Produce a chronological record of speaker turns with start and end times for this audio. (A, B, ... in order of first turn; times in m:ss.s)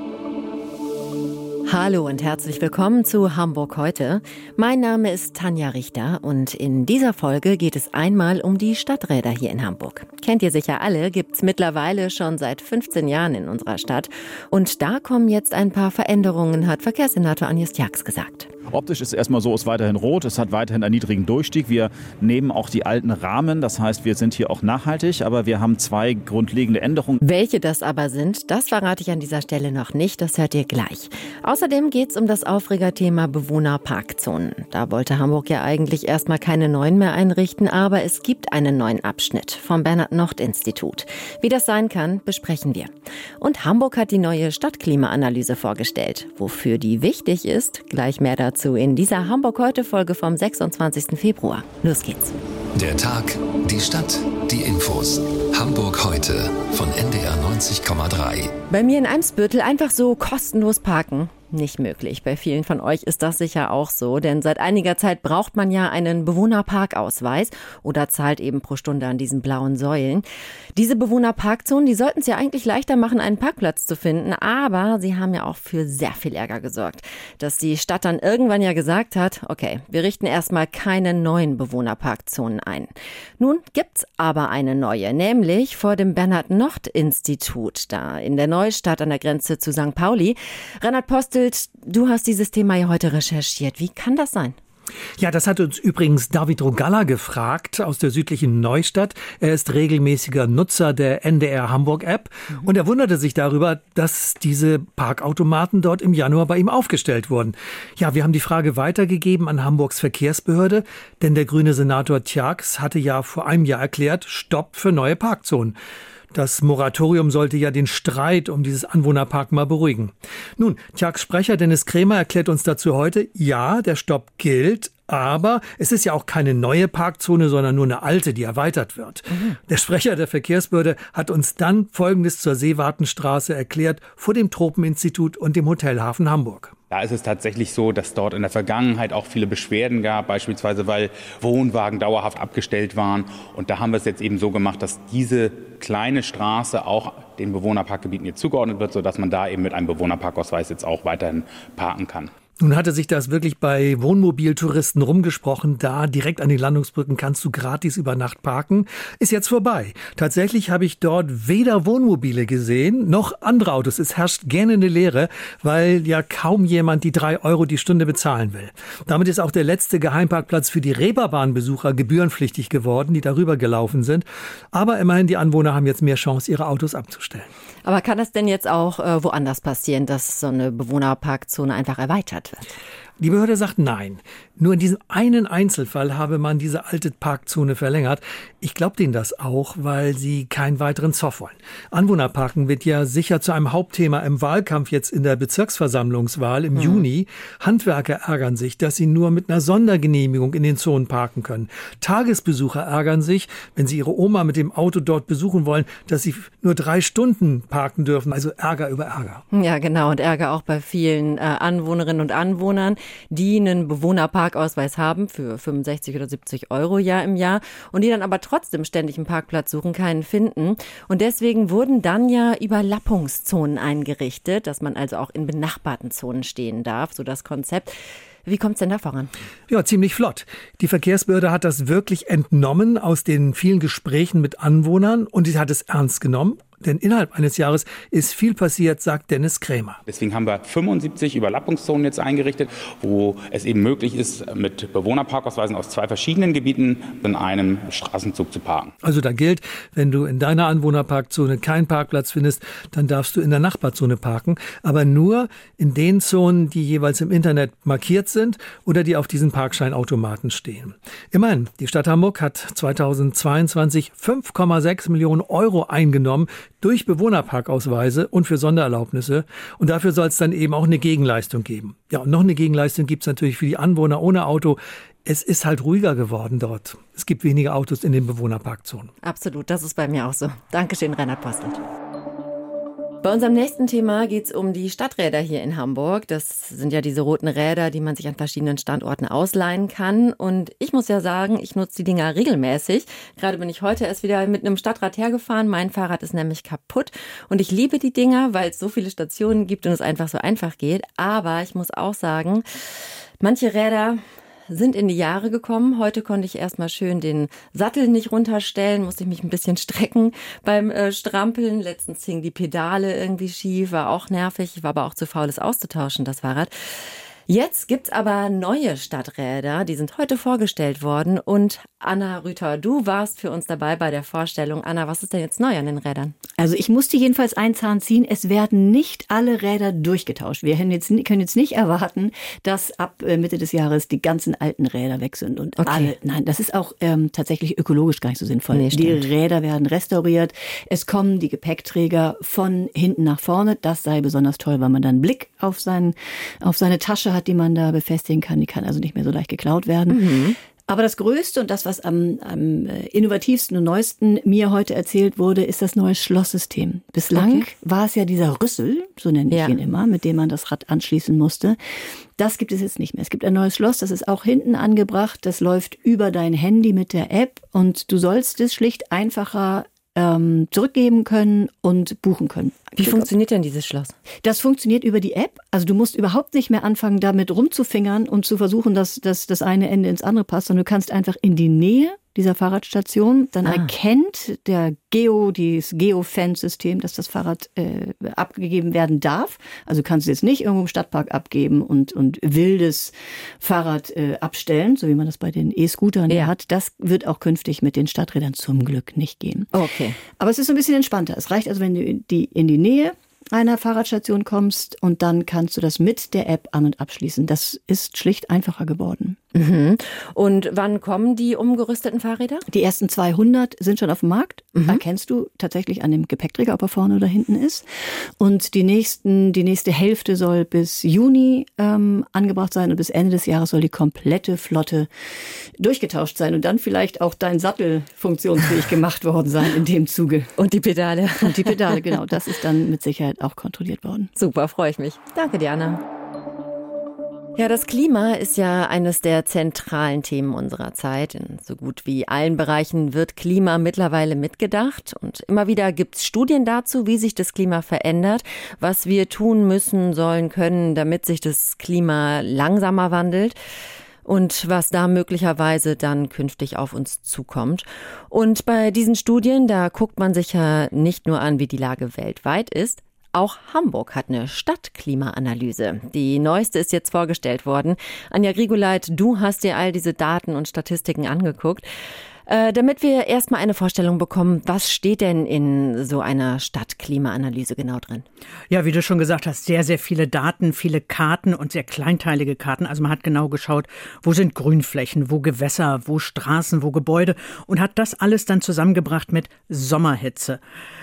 0:01.7-0:18.5 A
0:18.7-0:27.2 B
0:27.2-0:52.4 A
0:52.8-0:58.5 C
0:58.7-1:34.6 A
1:35.2-1:55.8 D
1:56.3-2:16.7 D
2:16.9-2:32.3 E
2:32.6-2:57.5 D
2:57.8-3:02.6 A
3:03.2-3:29.4 D
3:16.8-3:17.1 A
3:29.5-3:47.9 A
3:48.4-3:49.3 A
3:49.7-4:00.0 D
4:00.1-4:08.9 E
4:09.0-4:39.1 D
4:39.2-4:41.8 A
4:43.2-5:02.6 A
5:03.4-5:16.7 A
5:17.5-5:26.4 A
5:26.6-6:01.8 F
5:35.8-5:36.1 A
5:38.7-5:39.3 A
5:50.1-5:50.6 A
5:57.3-5:57.7 A
5:59.5-5:59.8 A
6:02.4-6:13.3 F
6:13.0-6:14.2 A
6:14.4-6:39.7 F
6:23.6-6:23.9 A
6:39.7-6:40.2 A
6:40.4-6:49.4 F
6:49.5-6:52.7 A
6:52.7-6:57.9 F
6:58.4-7:05.1 F
7:05.8-7:10.5 F
7:10.6-7:12.0 A
7:11.4-7:14.3 F
7:14.4-7:16.0 A
7:17.6-7:33.6 A
7:34.2-7:51.8 A
7:52.5-7:58.2 A
7:58.7-8:10.6 G